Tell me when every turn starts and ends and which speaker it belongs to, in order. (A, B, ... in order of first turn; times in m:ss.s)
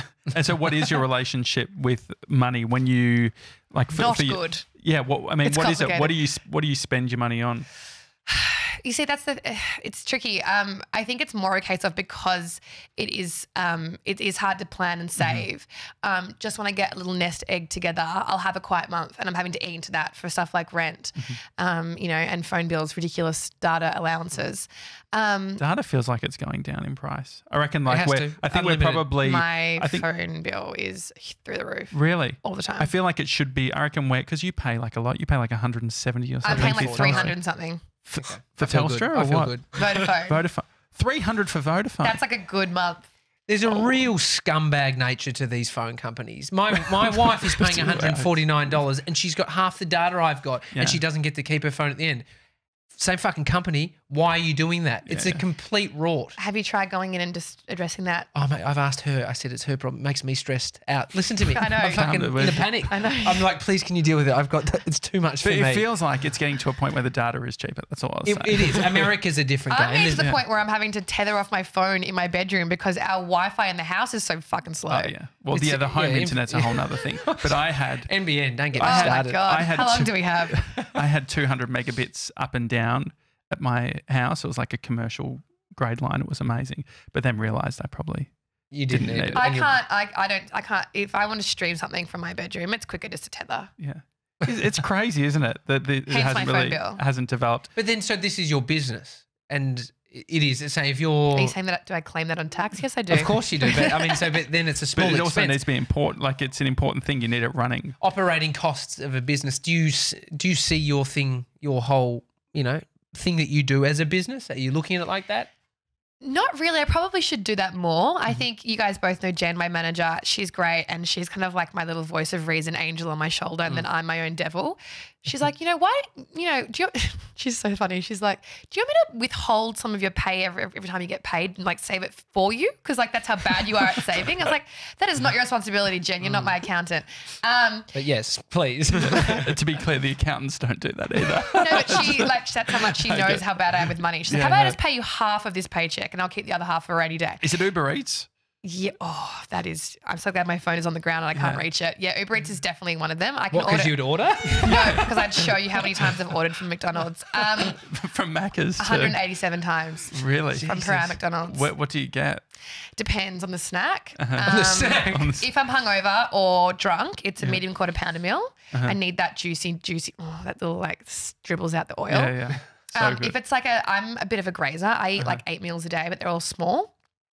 0:00.2-0:07.7 A
0:03.9-0:04.6 B
0:05.4-0:06.1 B
0:08.3-0:25.6 B
0:15.2-0:15.4 A
0:25.6-0:30.0 A
0:27.8-0:29.1 C
0:29.2-0:32.9 B
0:31.9-0:37.4 A
0:36.4-0:37.8 B
0:36.5-0:37.3 C
0:38.0-0:42.2 A
0:38.2-0:39.9 C
0:39.8-0:40.4 B
0:42.0-0:43.1 B
0:43.5-0:52.2 C
0:47.1-0:48.5 A
0:50.7-0:51.0 A
0:52.9-0:56.4 C
0:55.1-0:55.4 A
0:56.4-0:58.3 B
0:58.3-1:05.9 C
1:01.5-1:03.4 B
1:01.7-1:02.7 A
1:05.4-1:09.1 A
1:08.2-1:10.2 C
1:09.7-1:15.1 B
1:14.9-1:18.1 A
1:15.5-1:19.4 C
1:18.8-1:28.3 A
1:18.8-1:20.6 B
1:28.7-1:29.7 C
1:28.9-1:29.6 A
1:29.3-1:33.7 B
1:33.8-1:37.7 A
1:36.1-1:37.0 B
1:37.7-1:41.6 C
1:41.3-1:44.1 B
1:43.1-1:45.6 C
1:44.9-1:48.0 A
1:48.0-1:55.5 C
1:56.2-2:17.9 B
2:17.9-2:19.5 C
2:19.2-2:22.3 A
2:21.5-2:27.4 B
2:23.0-2:24.8 A
2:27.4-2:28.3 A
2:28.6-2:37.8 B
2:31.4-2:31.6 A
2:33.5-2:35.1 C
2:34.6-2:35.1 A
2:37.6-2:39.2 A
2:38.8-2:41.7 B
2:40.1-2:42.4 A
2:40.2-2:41.0 C
2:43.0-2:52.4 B
2:44.2-2:45.4 A
2:44.4-2:45.3 C
2:52.1-2:53.3 A
2:52.9-2:56.9 B